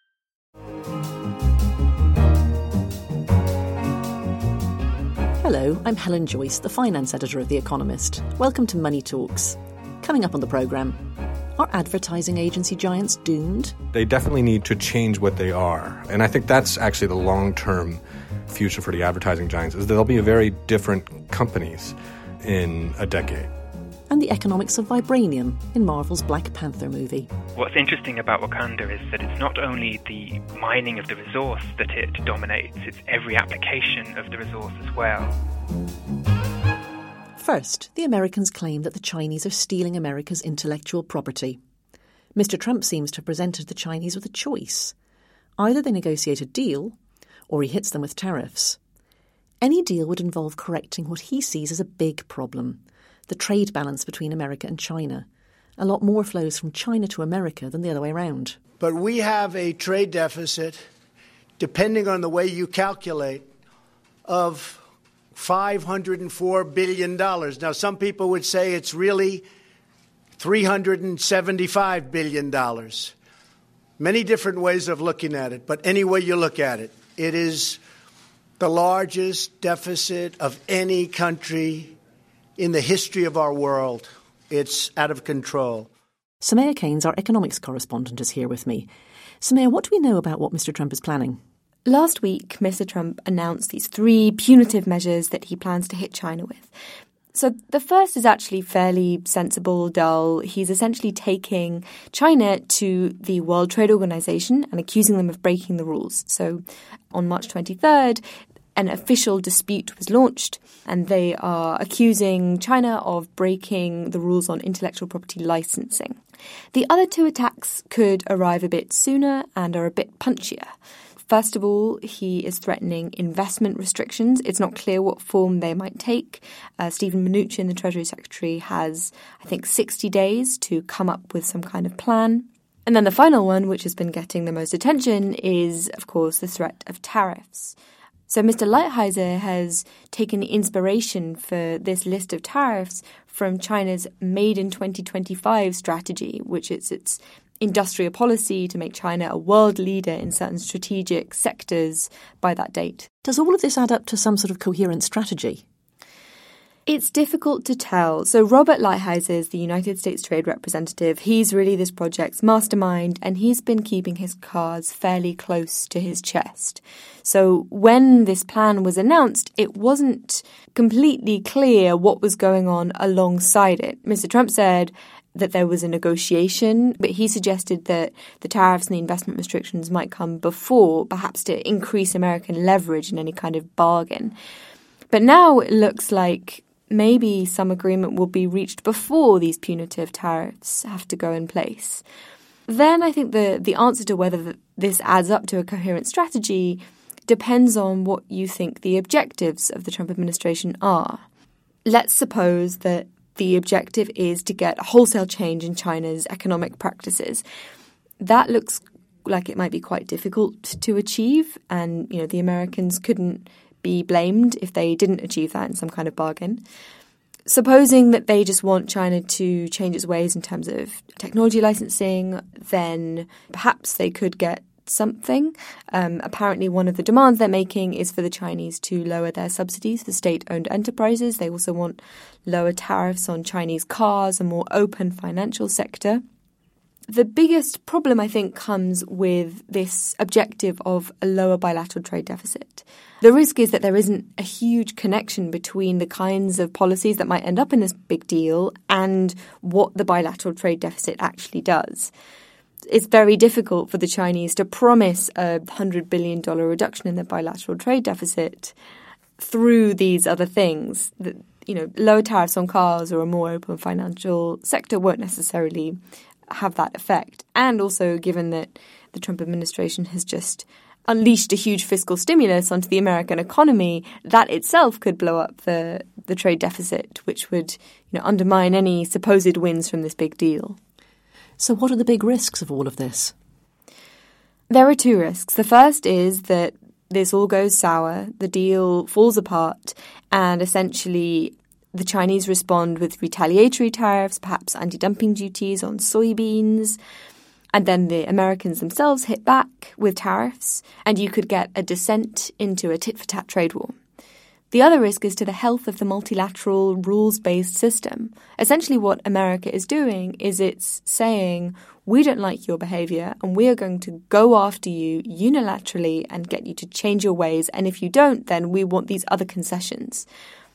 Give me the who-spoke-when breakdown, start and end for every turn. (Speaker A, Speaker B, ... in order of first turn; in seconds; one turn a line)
Speaker A: 5.4-11.0
Speaker A: 11.6-13.7
Speaker B: 13.9-23.5
Speaker A: 24.1-27.3
Speaker C: 27.6-35.4
Speaker A: 37.4-41.6
Speaker A: 42.3-44.9
Speaker A: 45.6-47.0
Speaker A: 47.5-48.8
Speaker A: 49.6-55.3
Speaker A: 55.8-58.6
Speaker D: 58.8-60.8
Speaker D: 61.6-63.5
Speaker D: 64.2-64.8
Speaker D: 65.3-69.4
Speaker D: 70.4-73.1
Speaker D: 74.0-77.8
Speaker D: 78.6-82.0
Speaker D: 82.6-85.9
Speaker A: 86.4-88.9
Speaker A: 89.4-91.4
Speaker E: 91.8-96.7
Speaker E: 97.3-108.2
Speaker E: 108.7-116.2
Speaker E: 116.7-120.7
Speaker E: 121.3-137.7
Speaker E: 138.3-153.1
Speaker A: 153.2-155.6
Speaker E: 156.8-184.3
Speaker E: 185.1-192.0
Speaker E: 192.7-201.2
Speaker E: 201.8-207.4
Speaker E: 208.2-216.6
Speaker E: 217.4-236.2
Speaker E: 237.1-252.1
Speaker E: 252.9-258.7
Speaker E: 259.4-280.8
Speaker A: 281.6-283.3
Speaker E: 284.7-297.0
Speaker E: 297.7-303.9
Speaker E: 304.7-320.3